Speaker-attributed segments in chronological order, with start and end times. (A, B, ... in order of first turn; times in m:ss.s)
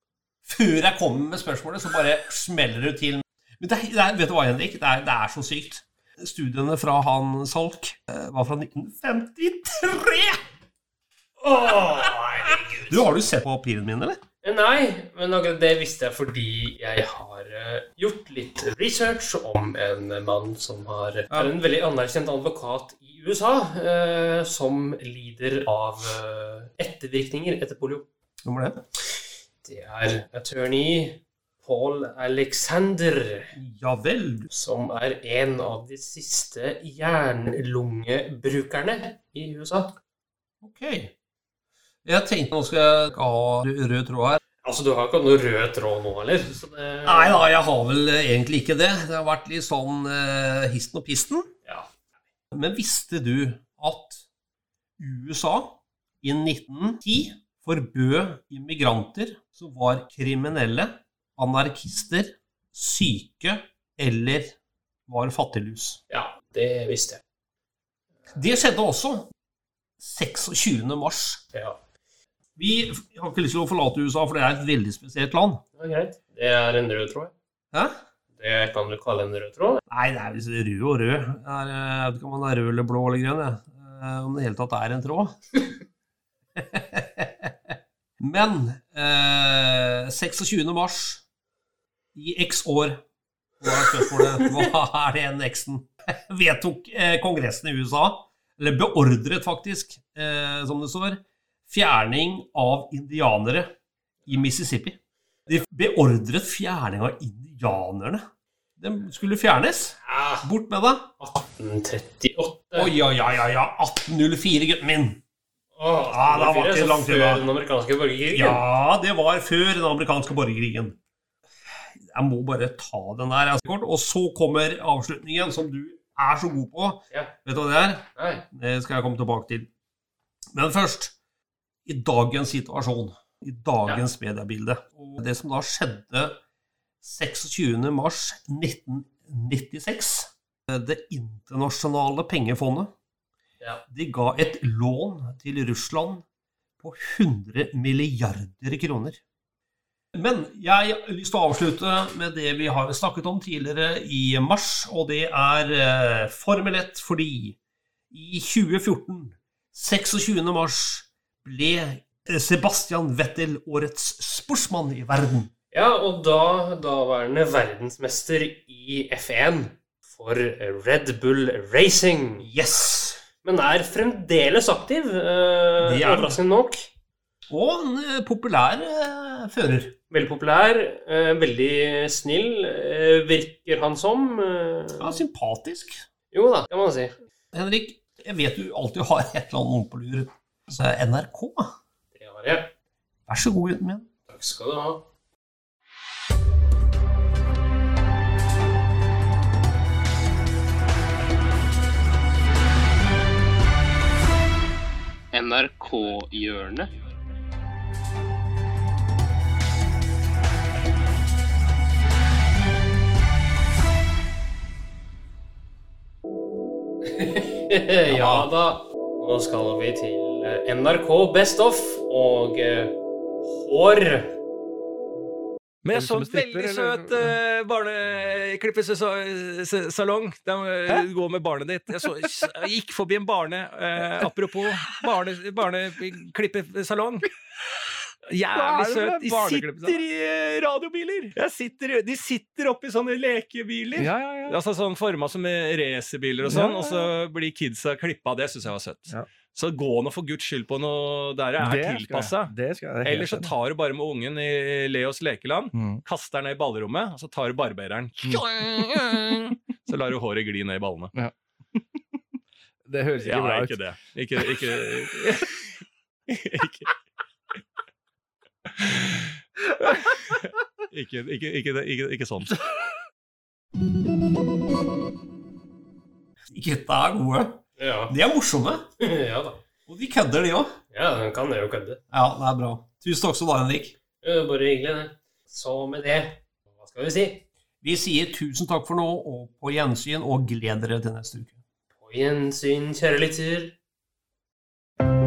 0:00.4-0:10.4 A
0:11.4-0:13.1 B
0:12.9-0:14.2 A
0:14.4-0:28.0 B
0:28.4-0:28.8 A
0:29.6-0:33.5 B
0:33.6-0:34.5 A
0:34.5-0:39.9 B
0:40.6-0:41.1 A
0:42.0-0:44.4 A
0:44.6-0:47.5 B
0:47.0-0:51.5 A
0:52.5-0:54.2 A
0:55.0-1:04.6 A
1:05.1-1:06.0 A
1:06.1-1:07.2 B
1:08.3-1:09.3 A
1:10.0-1:11.4 A
1:12.6-1:15.6 A
1:15.8-1:17.3 B
1:18.3-1:19.8 B
1:19.9-1:25.5 A
1:26.6-1:27.5 A
1:28.2-1:31.2 A
1:32.1-1:33.0 A
1:33.6-1:43.7 A
1:34.1-1:34.5 B
1:44.3-1:48.2 A
1:48.8-1:51.1 A
1:50.0-1:50.5 B
1:51.2-1:52.9 B
1:52.8-1:55.2 A
1:55.8-1:58.6 B
1:56.1-1:57.5 A
1:58.3-2:01.0 A
2:02.0-2:09.7 A
2:08.2-2:08.4 B
2:10.5-2:11.1 A
2:11.9-2:16.4 A
2:17.0-2:22.9 A
2:23.9-2:26.2 A
2:26.8-2:29.2 A
2:30.1-2:37.6 A
2:38.1-2:45.5 A
2:45.7-2:52.5 B
2:52.4-2:53.2 A
2:53.4-2:56.9 B
2:55.8-2:56.4 A
2:57.5-2:59.9 A
3:00.1-3:05.2 B
3:05.0-3:06.0 A
3:06.3-3:07.1 B
3:07.5-3:11.7 A
3:12.1-3:12.7 B
3:13.3-3:14.1 A
3:14.2-3:15.0 B
3:25.3-3:26.9 B
3:37.0-3:42.9 B
3:38.1-3:38.5 A
3:43.5-3:44.3 B
3:45.8-3:57.3 C
3:45.9-3:47.4 D
3:51.9-3:52.5 D
3:54.0-3:55.2 D
3:58.3-4:21.1 C
3:58.5-4:00.0 D
4:03.9-4:04.6 D
4:06.4-4:07.1 D
4:11.6-4:13.5 D
4:15.7-4:16.0 D
4:18.2-4:19.2 D
4:22.8-4:23.8 D
4:23.2-4:25.6 C
4:24.4-4:25.4 D
4:26.3-4:26.9 C
4:28.8-4:29.2 C
4:29.9-4:32.6 C
4:36.5-4:38.8 A
4:37.8-4:38.1 B
4:39.0-4:39.6 B
4:39.9-4:40.7 A
4:40.9-4:42.0 B
4:42.1-4:43.9 A
4:44.2-4:47.4 B
4:47.8-4:51.6 A
4:52.0-4:53.8 B